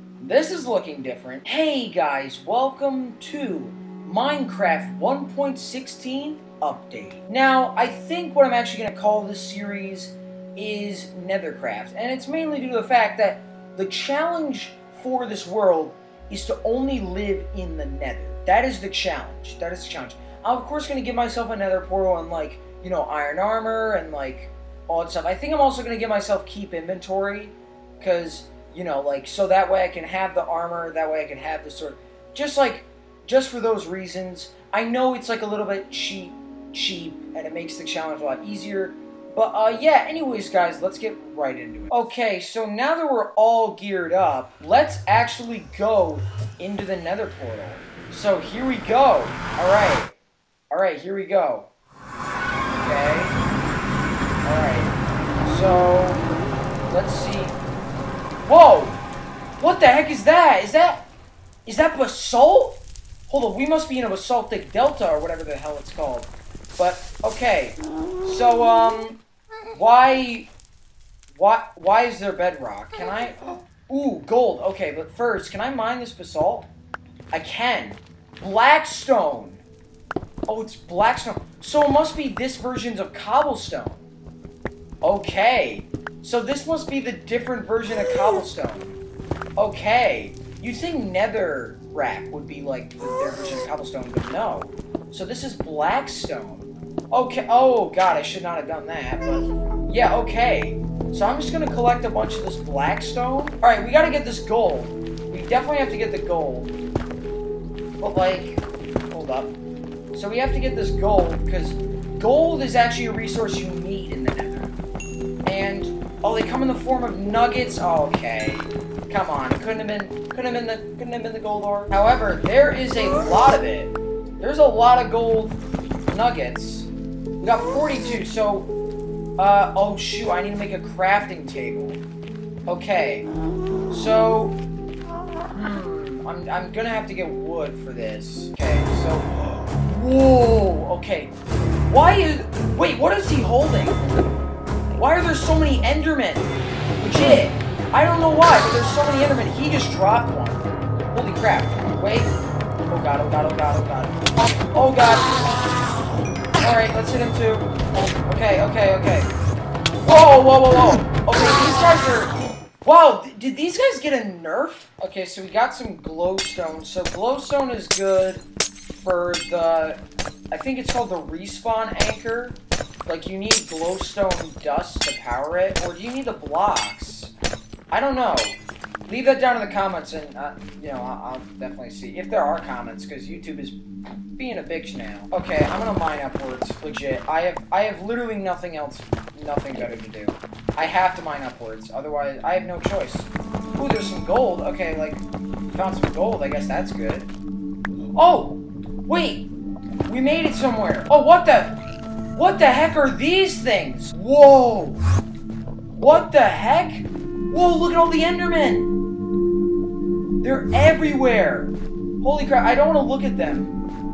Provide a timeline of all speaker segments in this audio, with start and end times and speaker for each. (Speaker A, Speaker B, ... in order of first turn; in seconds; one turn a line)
Speaker A: 0.2-50.1
Speaker A: 50.7-51.7
Speaker A: 52.7-53.4
Speaker A: 54.5-56.2
Speaker A: 56.9-57.6
Speaker A: 58.4-59.0
Speaker A: 59.6-61.1
Speaker A: 61.7-69.2
Speaker A: 69.7-70.5
Speaker A: 71.3-76.7
Speaker A: 77.3-79.6
Speaker A: 80.5-84.1
Speaker A: 85.0-89.0
Speaker A: 89.6-106.7
Speaker A: 108.0-109.6
Speaker A: 110.1-114.8
Speaker A: 115.5-126.9
Speaker A: 127.4-128.7
Speaker A: 129.4-132.0
Speaker A: 132.7-133.3
Speaker A: 133.9-134.6
Speaker A: 135.5-141.3
Speaker A: 141.9-144.0
Speaker A: 144.9-152.3
Speaker A: 152.9-154.2
Speaker A: 154.7-155.4
Speaker A: 156.6-157.7
Speaker A: 158.3-159.3
Speaker A: 160.0-168.4
Speaker A: 168.9-170.0
Speaker A: 170.5-177.3
Speaker A: 177.9-183.8
Speaker A: 184.4-197.3
Speaker A: 198.2-199.5
Speaker A: 200.1-201.8
Speaker A: 202.3-205.0
Speaker A: 205.9-208.9
Speaker A: 210.4-213.8